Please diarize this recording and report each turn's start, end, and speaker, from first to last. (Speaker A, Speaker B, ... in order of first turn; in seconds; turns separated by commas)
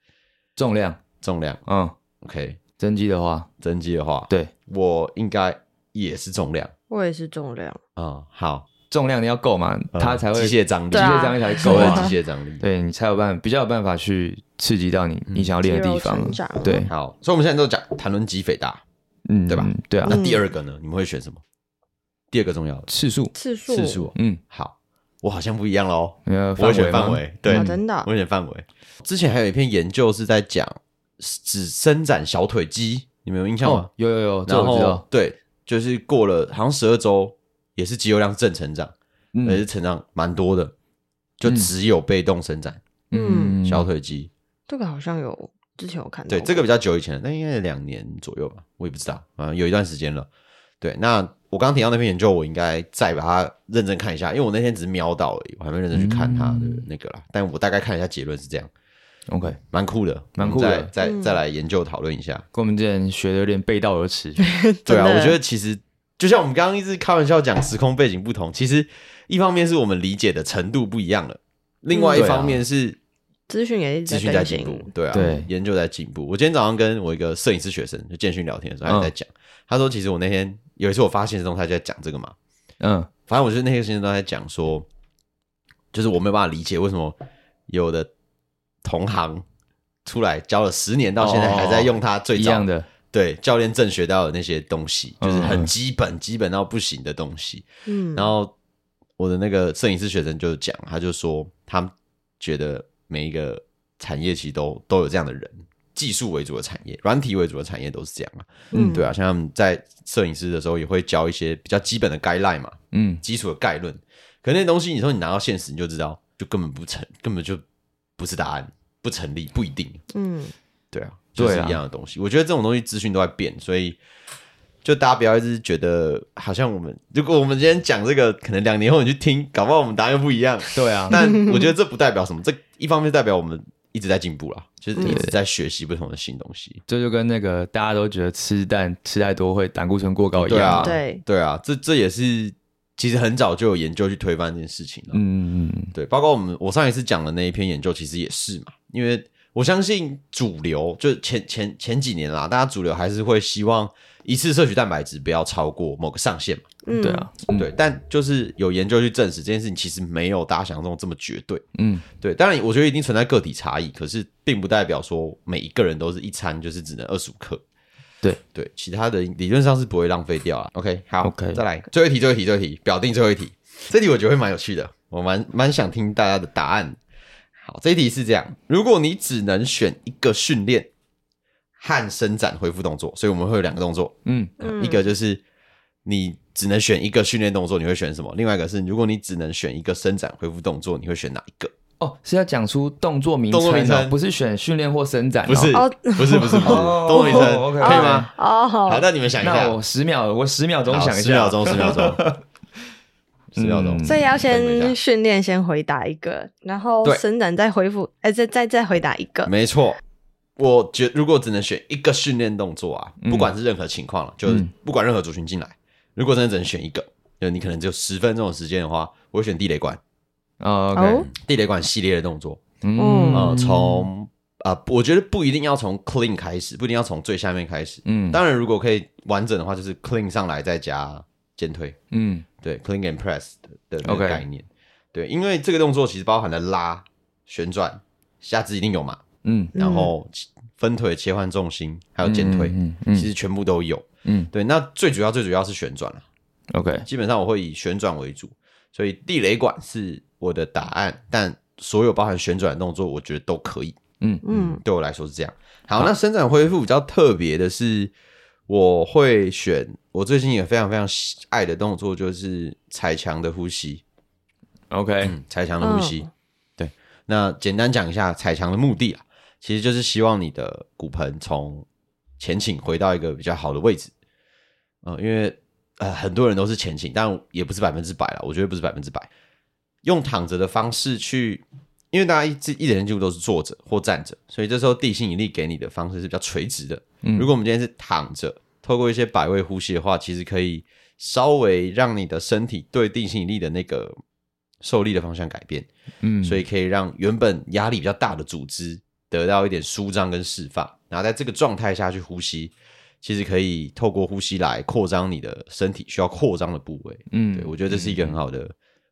Speaker A: 0.6-1.0, Speaker B: 1.2-1.6, Speaker A: 1.7-2.0, Speaker B: 2.2-2.6, Speaker A: 2.8-3.5, Speaker B: 3.6-6.7, Speaker C: 6.9-7.8, Speaker B: 8.0-8.7, Speaker A: 8.9-16.9, Speaker B: 9.9-12.7, Speaker C: 10.9-12.1, Speaker B: 15.3-15.5, Speaker C: 15.6-16.9, Speaker B: 16.9-18.8, Speaker A: 19.3-20.2, Speaker B: 19.5-21.4, Speaker C: 20.1-20.4, Speaker B: 22.3-22.9, Speaker A: 22.9-23.3, Speaker C: 23.3-24.1, Speaker B: 23.7-33.9, Speaker A: 24.1-24.4, Speaker A: 26.3-27.8, Speaker C: 27.5-28.1, Speaker A: 33.6-35.0, Speaker B: 34.5-38.9, Speaker A: 39.3-39.6, Speaker B: 39.4-40.7, Speaker B: 41.4-42.8, Speaker A: 41.5-41.7, Speaker A: 43.1-43.9, Speaker C: 43.1-43.6, Speaker B: 43.6-44.3, Speaker C: 44.7-46.6, Speaker B: 46.3-50.3, Speaker B: 50.8-58.7, Speaker A: 55.9-56.9, Speaker A: 59.3-59.6, Speaker B: 59.7-62.5, Speaker A: 60.4-60.9, Speaker C: 61.0-61.4, Speaker A: 62.5-64.4, Speaker C: 64.4-65.4, Speaker B: 64.9-73.0, Speaker C: 71.9-72.3, Speaker A: 72.2-72.6, Speaker C: 73.5-75.4, Speaker B: 74.1-82.3, Speaker A: 75.1-75.5, Speaker A: 78.9-79.1, Speaker A: 82.8-83.1, Speaker B: 83.3-84.9, Speaker B: 85.9-87.2, Speaker B: 87.7-88.1, Speaker B: 88.8-89.4, Speaker B: 90.0-98.5, Speaker A: 91.2-92.9, Speaker A: 95.2-95.7, Speaker C: 97.9-98.3, Speaker B: 99.2-117.6, Speaker C: 108.7-109.1, Speaker A: 108.7-109.0, Speaker A: 112.9-113.2, Speaker B: 118.2-120.0, Speaker C: 120.1-120.5, Speaker B: 120.9-124.0, Speaker A: 121.4-121.8, Speaker B: 124.8-136.8, Speaker A: 130.8-131.2, Speaker A: 135.0-135.3, Speaker A: 136.9-141.0, Speaker B: 140.4-145.2, Speaker C: 140.6-141.2, Speaker A: 145.1-145.9, Speaker B: 145.9-156.7, Speaker C: 156.8-157.3, Speaker A: 157.0-157.7, Speaker B: 157.6-161.6, Speaker A: 161.8-162.1, Speaker B: 162.2-167.6, Speaker B: 168.5-177.0, Speaker A: 171.2-171.6, Speaker B: 177.6-180.9, Speaker B: 181.8-185.4, Speaker A: 184.2-184.5, Speaker C: 184.6-185.0, Speaker B: 186.1-191.7, Speaker A: 192.0-195.8, Speaker B: 193.5-194.2, Speaker B: 195.5-198.3, Speaker C: 195.7-199.0, Speaker A: 196.6-198.3, Speaker B: 198.9-199.8, Speaker A: 199.4-202.4, Speaker B: 200.9-202.2, Speaker B: 203.5-205.0, Speaker A: 203.6-204.2, Speaker C: 204.1-209.5, Speaker B: 209.4-210.0, Speaker B: 210.6-220.0, Speaker A: 213.2-213.5, Speaker A: 220.6-221.3, Speaker C: 220.9-221.3, Speaker B: 221.3-222.6, Speaker A: 222.8-223.8, Speaker C: 223.0-223.7, Speaker B: 223.3-232.0, Speaker A: 228.1-228.4, Speaker A: 232.1-232.5, Speaker B: 232.6-239.2, Speaker A: 234.1-234.4, Speaker A: 239.4-239.7, Speaker C: 239.8-240.1, Speaker B: 239.8-246.2, Speaker A: 242.2-243.3, Speaker A: 244.2-244.5, Speaker A: 246.7-247.1, Speaker B: 247.1-258.1, Speaker C: 254.4-254.8, Speaker B: 258.7-264.0, Speaker A: 264.9-265.4, Speaker B: 265.2-271.9, Speaker C: 265.8-266.3, Speaker B: 272.4-274.1, Speaker B: 275.0-279.3, Speaker B: 280.0-294.2, Speaker A: 287.2-287.5, Speaker B: 294.8-295.9, Speaker A: 296.2-296.6, Speaker B: 296.4-308.7, Speaker A: 307.3-308.4